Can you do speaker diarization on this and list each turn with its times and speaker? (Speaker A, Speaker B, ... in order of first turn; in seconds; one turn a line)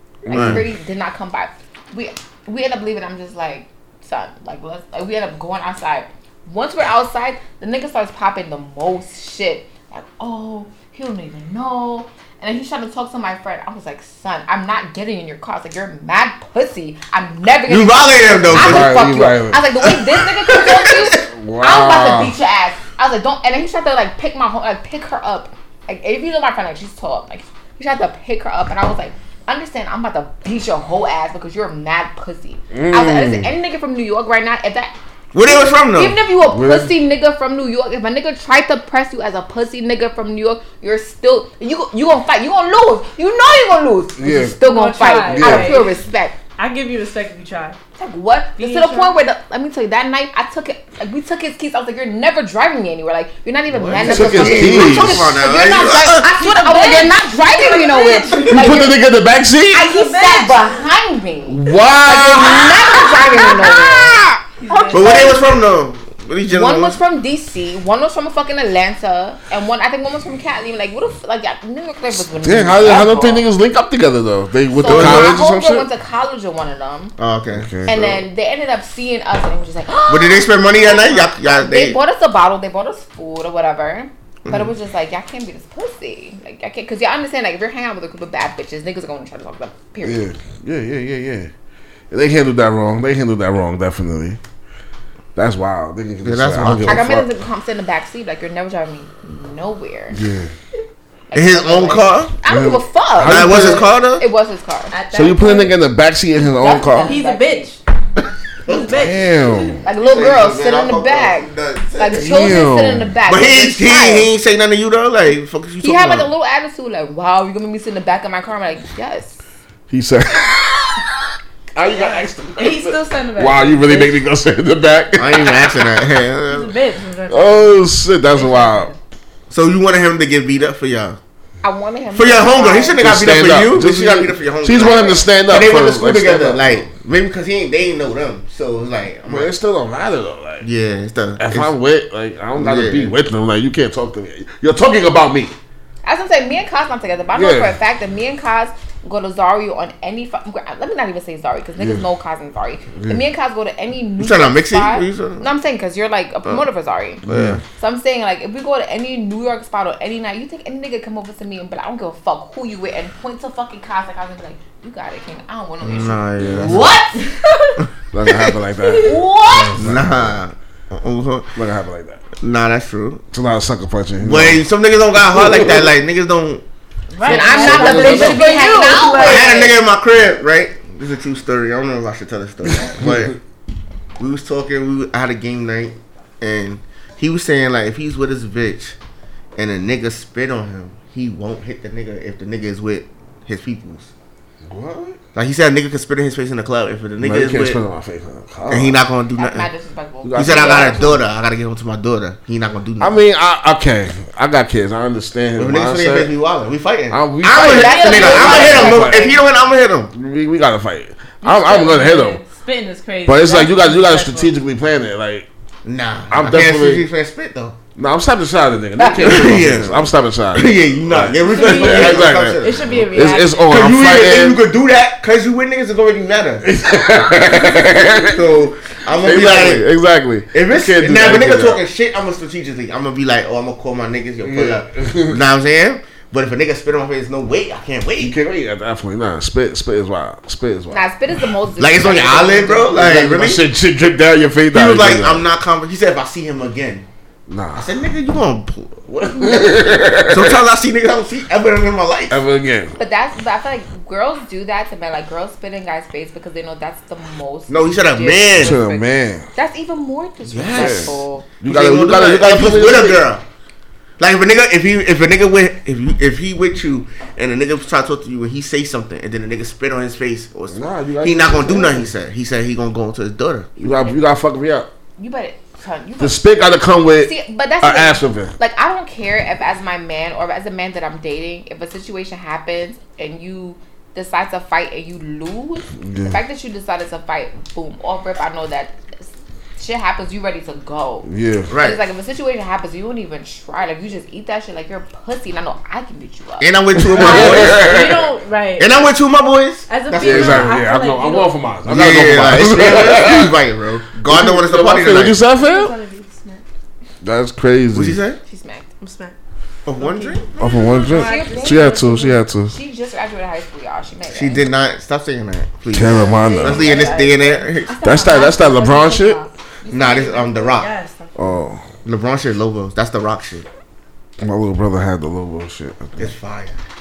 Speaker A: 0.2-0.6
Speaker B: 0.3-46.4
Speaker C: 0.3-0.6
Speaker C: 17.7-19.1
Speaker A: 18.5-19.6
Speaker C: 19.8-21.3
Speaker A: 21.3-22.4
Speaker A: 32.7-33.5
Speaker C: 35.3-36.2
Speaker A: 36.4-37.0
Speaker A: 44.2-45.9
Speaker D: 44.6-46.0
Speaker D: 46.6-47.8
Speaker B: 48.0-59.0
Speaker D: 48.6-49.1
Speaker C: 53.7-56.3
Speaker A: 54.0-55.4
Speaker D: 56.2-58.9
Speaker A: 58.4-59.9
Speaker B: 59.7-65.6
Speaker D: 59.7-60.8
Speaker A: 61.5-64.4
Speaker D: 64.6-65.5
Speaker C: 64.9-67.0
Speaker B: 66.5-73.5
Speaker A: 72.4-75.9
Speaker B: 74.7-77.2
Speaker C: 74.8-75.4
Speaker C: 77.2-78.0
Speaker A: 77.5-78.1
Speaker B: 77.9-90.2
Speaker C: 80.1-82.0
Speaker C: 84.5-84.7
Speaker A: 90.0-91.5
Speaker A: 92.1-94.4
Speaker A: 95.3-97.3
Speaker C: 96.2-97.1
Speaker B: 96.7-100.2
Speaker A: 100.1-100.5
Speaker B: 101.3-104.9
Speaker C: 101.3-102.3
Speaker A: 102.5-103.9
Speaker C: 103.2-104.3
Speaker D: 104.9-105.8
Speaker A: 105.1-107.2
Speaker B: 106.6-107.7
Speaker D: 107.0-107.8
Speaker C: 108.7-109.0
Speaker D: 108.7-109.8
Speaker A: 108.9-109.8
Speaker B: 109.8-114.3
Speaker C: 110.0-112.3
Speaker A: 112.1-113.2
Speaker C: 113.3-116.3
Speaker B: 115.8-119.4
Speaker A: 119.9-121.1
Speaker A: 121.7-125.9
Speaker D: 122.6-124.2
Speaker C: 125.2-126.7
Speaker D: 126.5-129.0
Speaker A: 127.3-128.9
Speaker C: 129.5-131.2
Speaker B: 131.6-133.1
Speaker C: 132.1-139.5
Speaker A: 133.0-136.9
Speaker B: 134.8-135.2
Speaker A: 139.3-140.7
Speaker C: 140.6-141.7
Speaker A: 141.4-145.6
Speaker C: 142.6-143.2
Speaker B: 146.0-157.2
Speaker A: 147.3-147.8
Speaker A: 151.8-152.0
Speaker C: 154.2-155.5
Speaker A: 157.3-157.6
Speaker C: 157.3-157.6
Speaker B: 157.8-167.2
Speaker C: 165.8-167.0
Speaker A: 166.4-166.9
Speaker D: 167.2-167.8
Speaker C: 167.8-168.6
Speaker A: 168.1-170.4
Speaker D: 168.8-169.2
Speaker B: 169.0-169.8
Speaker C: 169.7-171.5
Speaker A: 171.6-172.2
Speaker C: 172.4-173.2
Speaker A: 173.3-174.6
Speaker C: 174.2-176.6
Speaker A: 175.3-175.9
Speaker D: 177.1-179.7
Speaker B: 177.2-179.8
Speaker A: 177.3-178.6
Speaker C: 179.2-183.4
Speaker A: 182.8-183.3
Speaker C: 184.2-189.0
Speaker C: 189.6-194.1
Speaker A: 194.7-195.2
Speaker C: 195.3-197.8
Speaker A: 197.2-199.0
Speaker C: 198.7-199.7
Speaker B: 199.4-201.2
Speaker A: 200.2-201.2
Speaker C: 200.3-203.1
Speaker A: 203.0-206.3
Speaker C: 205.6-210.1
Speaker A: 207.1-209.3
Speaker B: 207.5-209.4
Speaker D: 207.7-208.9
Speaker A: 210.1-212.4
Speaker D: 211.4-214.5
Speaker A: 213.3-215.5
Speaker C: 215.8-217.8
Speaker A: 216.3-217.1
Speaker A: 218.0-224.6
Speaker C: 219.2-223.1
Speaker D: 221.4-223.7
Speaker C: 223.6-226.7
Speaker A: 226.6-228.5
Speaker C: 228.2-229.8
Speaker A: 229.2-231.8
Speaker C: 230.5-238.3
Speaker A: 234.4-235.4
Speaker A: 238.2-241.1
Speaker B: 240.9-243.0
Speaker C: 241.8-243.6
Speaker A: 242.9-245.4
Speaker C: 244.7-247.1
Speaker A: 247.5-247.9
Speaker C: 247.8-252.4
Speaker A: 249.3-250.6
Speaker A: 252.3-252.9
Speaker B: 253.0-261.5
Speaker C: 257.7-258.8
Speaker A: 258.6-259.5
Speaker C: 260.5-263.4
Speaker A: 260.7-263.3
Speaker C: 264.2-273.8
Speaker A: 270.7-272.1
Speaker A: 273.8-274.9
Speaker B: 275.2-276.4
Speaker A: 276.2-278.5
Speaker B: 277.2-297.6
Speaker A: 286.0-286.4
Speaker A: 291.2-291.7
Speaker C: 291.7-292.0
Speaker C: 296.6-298.0
Speaker A: 297.0-298.2
Speaker D: 297.2-299.0
Speaker C: 298.8-300.7
Speaker D: 299.9-301.6
Speaker A: 300.2-303.6
Speaker C: 301.9-305.4
Speaker A: 304.3-305.9
Speaker D: 305.5-306.6
Speaker A: 307.2-308.2
Speaker C: 307.9-308.4
Speaker B: 308.4-308.9
Speaker D: 309.0-309.4
Speaker C: 309.9-310.5
Speaker D: 310.0-312.4
Speaker A: 310.6-312.8
Speaker B: 311.1-314.7
Speaker C: 314.3-318.0
Speaker A: 315.9-316.9
Speaker D: 316.1-317.6
Speaker B: 316.4-320.8
Speaker A: 318.0-319.4
Speaker D: 318.3-319.5
Speaker C: 319.9-320.9
Speaker D: 320.8-321.6
Speaker A: 321.4-321.8
Speaker C: 322.1-323.7
Speaker A: 324.4-326.3
Speaker C: 326.2-326.8